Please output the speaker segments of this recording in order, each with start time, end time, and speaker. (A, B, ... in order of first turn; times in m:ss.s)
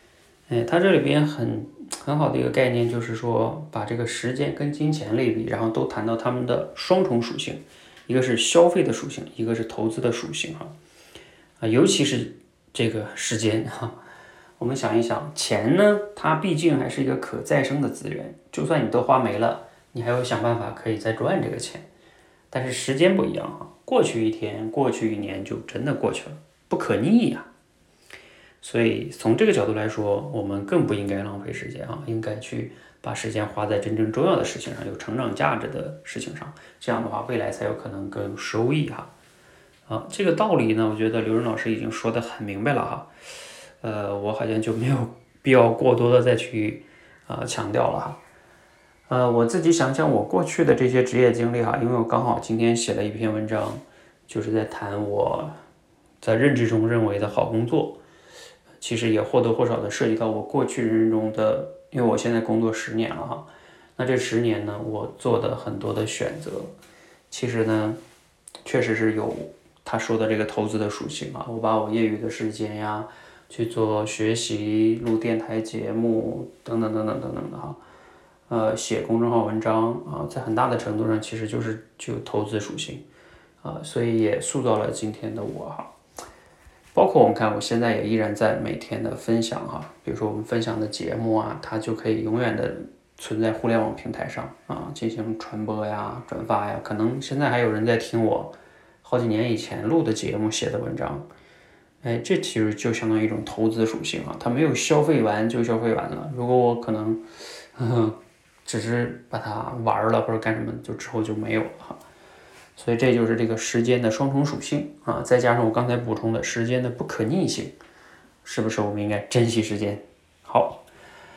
0:00.5-0:10.7 A
0:11.6-0:13.9 A
0:14.6-0:21.8 A
0:22.5-0:27.5 A
0:28.6-0:39.1 A
0:39.9-0:43.1 A
0:43.8-0:48.2 A
0:49.1-0:55.5 A
0:56.2-0:58.0 A
0:58.8-1:06.7 A
1:07.3-1:08.0 A
1:08.6-1:17.8 A
1:18.5-1:23.0 A
1:23.6-1:25.9 A
1:26.9-1:41.2 A
1:42.0-1:47.2 A
1:47.7-1:52.0 A
1:52.8-1:57.8 A
1:58.4-2:00.8 A